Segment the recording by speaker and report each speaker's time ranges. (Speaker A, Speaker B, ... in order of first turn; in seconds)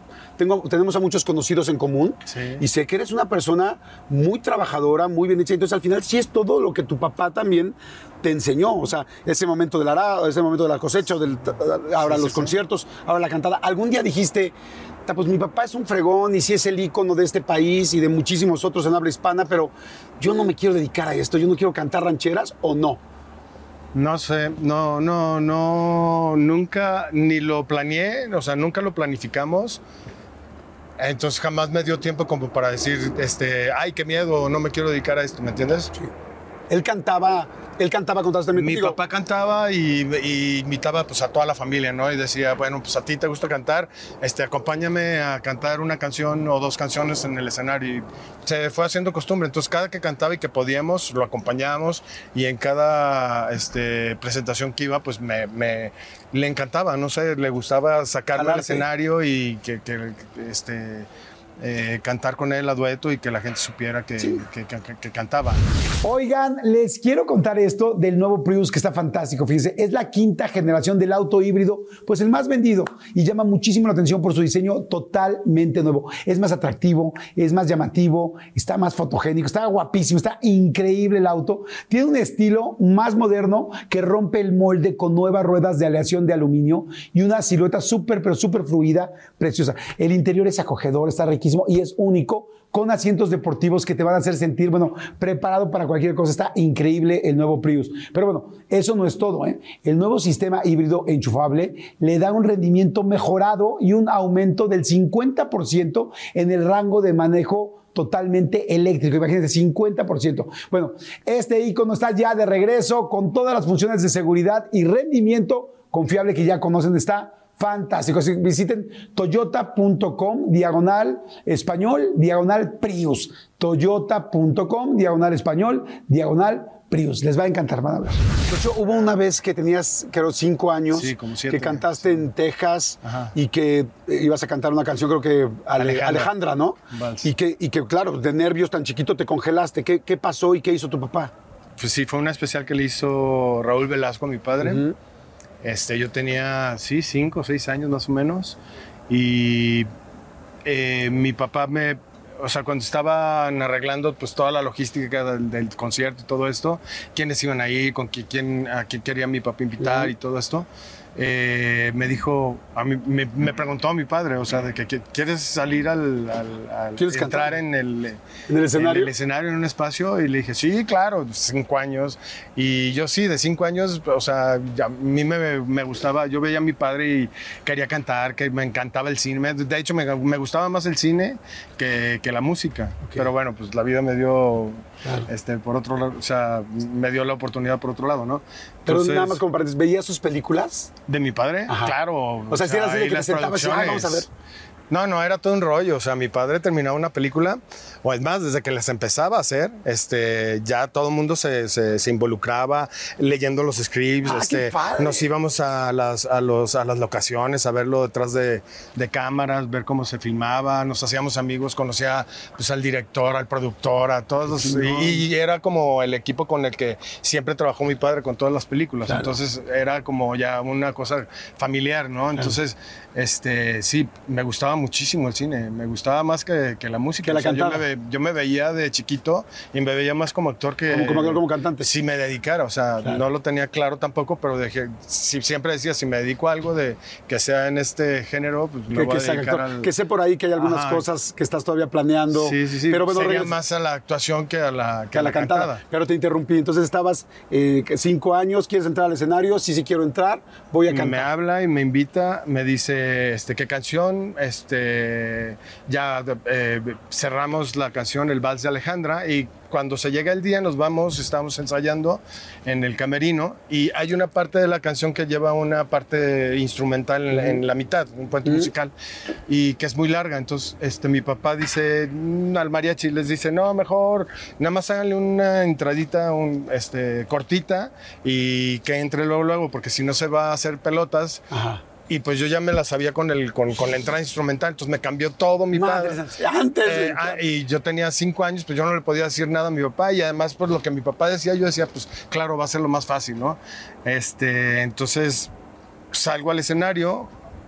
Speaker A: 0.4-14.5, 15.1-23.0, 36.7-39.0, 58.3-58.9, 64.2-64.4, 66.0-141.3, 144.6-144.9, 159.8-160.1, 167.0-167.6, 168.5-169.1, 188.8-190.9, 191.7-191.9, 192.5-194.3, 204.2-205.3, 214.5-215.2, 227.2-227.8, 230.9-231.9, 238.9-243.6, 245.1-251.3, 267.3-267.6, 268.4-268.7, 281.5-281.8, 285.7-287.4
Speaker B: 2.3-2.6, 12.0-12.5, 23.9-29.8, 31.0-35.9, 38.5-61.1, 61.6-65.6, 130.9-132.3, 133.0-133.3, 135.8-136.3, 136.9-137.3, 141.8-144.8, 145.6-148.6, 149.1-149.9, 150.6-168.2, 168.7-189.4, 191.1-194.3, 194.9-239.9, 240.6-241.0, 242.3-245.8, 250.9-268.9, 269.5-281.4, 282.0-286.2, 286.8-295.5, 296.1-297.3